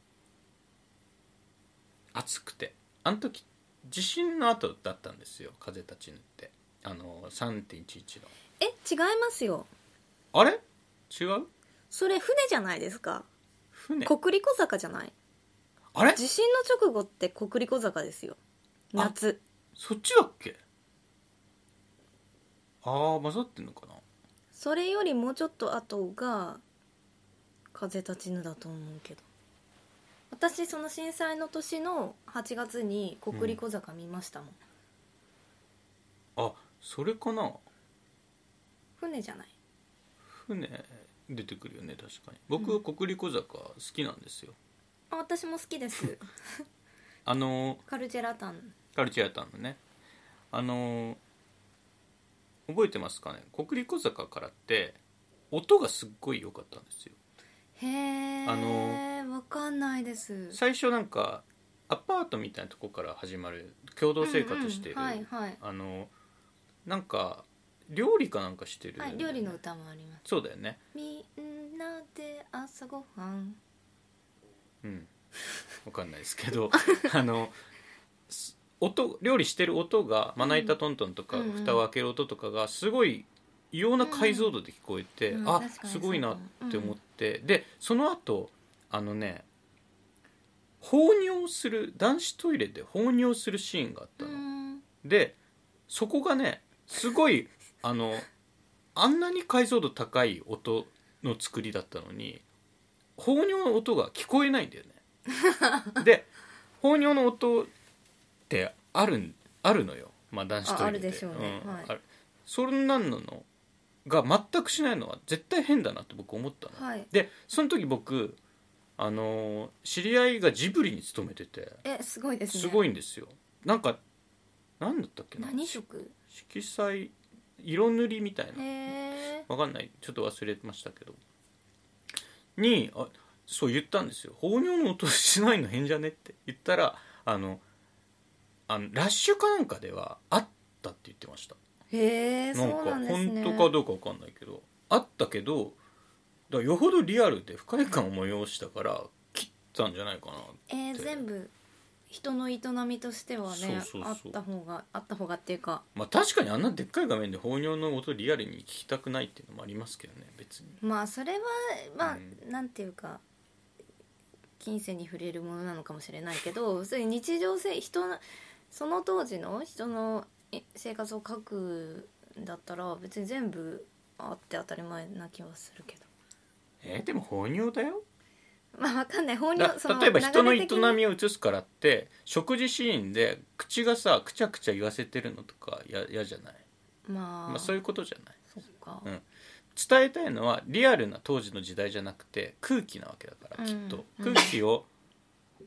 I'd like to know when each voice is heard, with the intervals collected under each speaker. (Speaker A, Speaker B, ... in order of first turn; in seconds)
Speaker A: 2.1-8.3, 10.3-11.5, 13.7-14.1, 15.9-16.2, 19.8-20.6, 22.8-24.0, 33.3-33.6, 36.4-37.6, 40.2-44.5, 47.2-47.8, 48.9-49.8, 50.5-51.2, 52.7-55.0, 55.5-57.2, 58.4-59.0, 60.5-66.1, 66.8-69.6, 70.2-70.8, 74.8-75.1, 75.8-77.6, 78.3-89.5, 90.8-94.4, 95.0-95.3, 95.9-98.3, 98.9-102.4, 103.2-105.0, 106.0-106.3, 106.8-107.7, 108.5-113.5, 114.0-118.4, 119.0-121.8, 122.5-124.0, 124.8-125.8, 126.3-128.7, 129.4-131.2, 132.6-137.6, 138.7-141.6, 142.5-145.8, 146.5-151.2, 153.5-154.4, 155.9-160.8, 162.0-162.4, 176.8-178.0, 179.6-186.6, 187.5-188.4, 189.0-194.9
Speaker B: 8.6-9.7, 11.9-13.3, 14.0-15.1, 16.1-18.4, 18.9-19.4, 24.5-26.6, 27.7-29.2, 30.3-34.6, 39.0-39.5, 45.1-46.3, 47.9-48.7, 57.8-60.6, 64.2-65.6, 69.0-70.2, 70.9-73.6, 80.4-80.7, 81.3-81.8, 84.0-84.5, 85.3-87.0, 94.2-94.8, 105.6-105.8, 110.6-111.9, 116.7-117.1, 121.8-122.8, 125.4-126.1, 128.6-129.4, 141.9-143.7, 150.7-151.5, 152.1-155.8, 160.8-163.2, 164.6-176.1, 178.7-181.0, 187.1-187.8, 188.5-189.1, 193.6-194.5